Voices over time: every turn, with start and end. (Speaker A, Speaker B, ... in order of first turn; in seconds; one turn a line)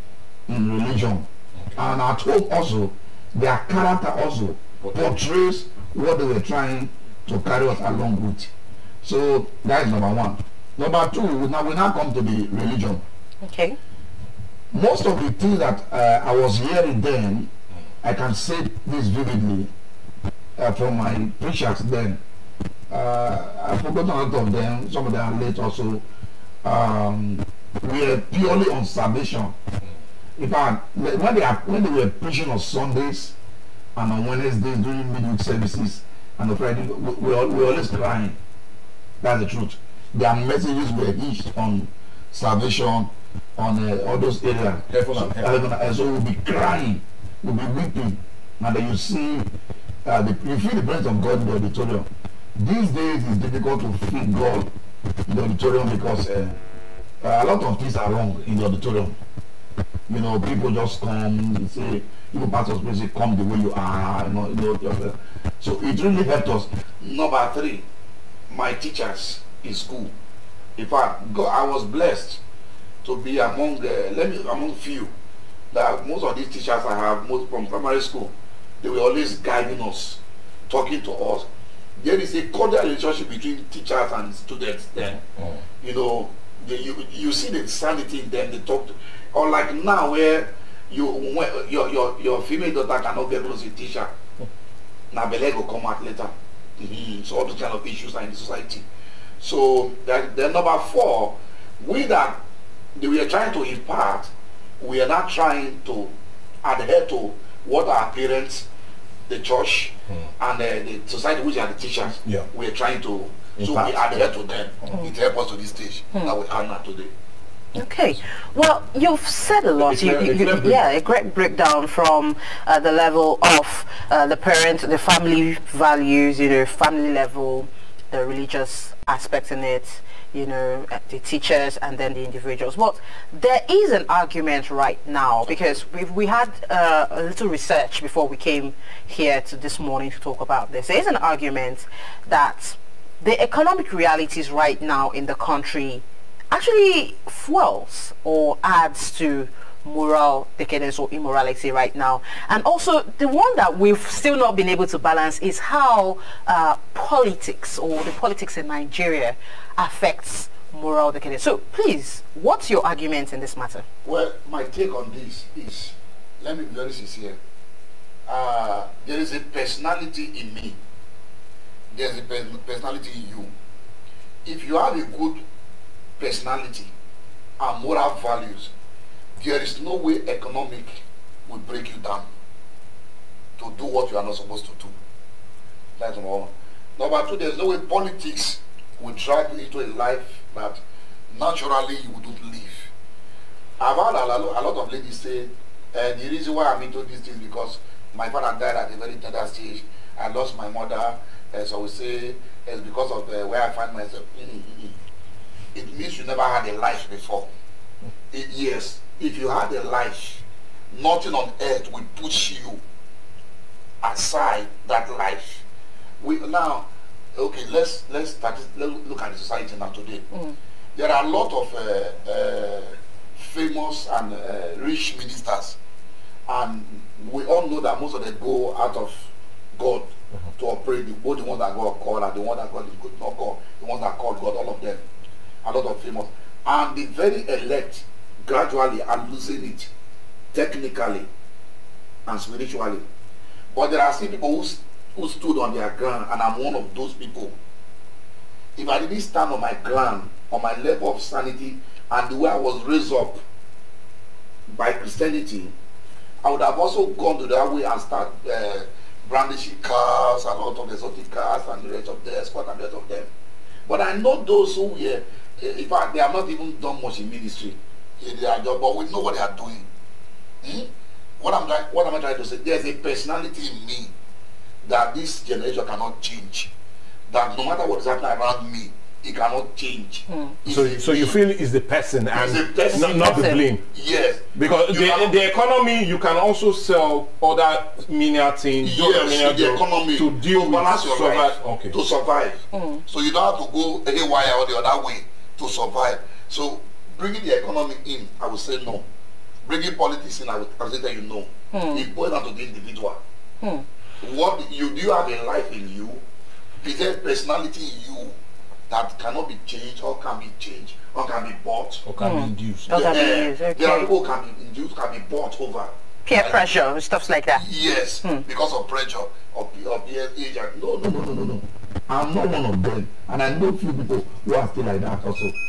Speaker A: 0.5-8.5
Speaker B: 4.8-5.2
Speaker A: 9.0-13.0
Speaker C: 13.4-13.8
Speaker A: 14.7-17.5
Speaker A: 18.0-19.7
Speaker A: 20.6-22.2
Speaker A: 22.9-26.1
Speaker A: 26.6-29.6
Speaker A: 30.4-33.4
Speaker A: 34.0-38.4
Speaker A: 39.2-49.5
Speaker B: 44.9-45.6
Speaker A: 50.0-54.7
Speaker A: 55.3-56.6
Speaker A: 57.2-59.2
Speaker A: 60.1-67.8
Speaker A: 68.5-70.1
Speaker A: 70.8-72.4
Speaker A: 73.0-75.1
Speaker A: 75.7-81.5
Speaker A: 82.0-85.2
Speaker B: 85.2-85.6
Speaker A: 85.8-94.1
Speaker A: 95.1-98.8
Speaker A: 99.4-102.4
Speaker A: 103.0-108.7
Speaker A: 109.3-117.1
Speaker B: 113.6-114.3
Speaker C: 117.8-163.8
Speaker B: 119.8-120.8
Speaker A: 164.1-167.4
Speaker A: 168.3-170.8
Speaker A: 171.9-173.5
Speaker A: 174.4-175.4
Speaker A: 176.2-176.9
Speaker A: 177.6-178.7
Speaker A: 179.4-182.3
Speaker A: 183.6-184.9
Speaker A: 186.0-192.9
Speaker A: 193.8-205.0
Speaker A: 205.7-207.5
Speaker A: 208.3-212.8
Speaker A: 214.0-215.6
Speaker A: 216.2-220.3
Speaker A: 220.9-225.8
Speaker A: 226.5-235.0
Speaker A: 235.6-239.9
Speaker A: 240.5-241.3
Speaker A: 242.3-243.0
Speaker A: 243.7-247.6
Speaker A: 248.8-253.4
Speaker A: 254.7-255.7
Speaker A: 256.4-263.3
Speaker A: 263.9-269.9
Speaker A: 270.6-274.1
Speaker A: 274.8-276.7
Speaker A: 277.3-281.4
Speaker B: 280.7-283.9
Speaker A: 282.3-285.4
Speaker C: 282.9-283.6
Speaker B: 284.6-292.0
Speaker A: 288.8-299.1
Speaker C: 292.7-293.0
Speaker A: 299.6-303.2
Speaker C: 301.7-302.1
Speaker A: 304.2-306.2
Speaker A: 306.8-308.4
Speaker A: 308.9-312.1
Speaker B: 312.0-312.9
Speaker C: 312.2-314.1
Speaker A: 312.9-316.7
Speaker C: 316.3-317.6
Speaker A: 317.5-325.6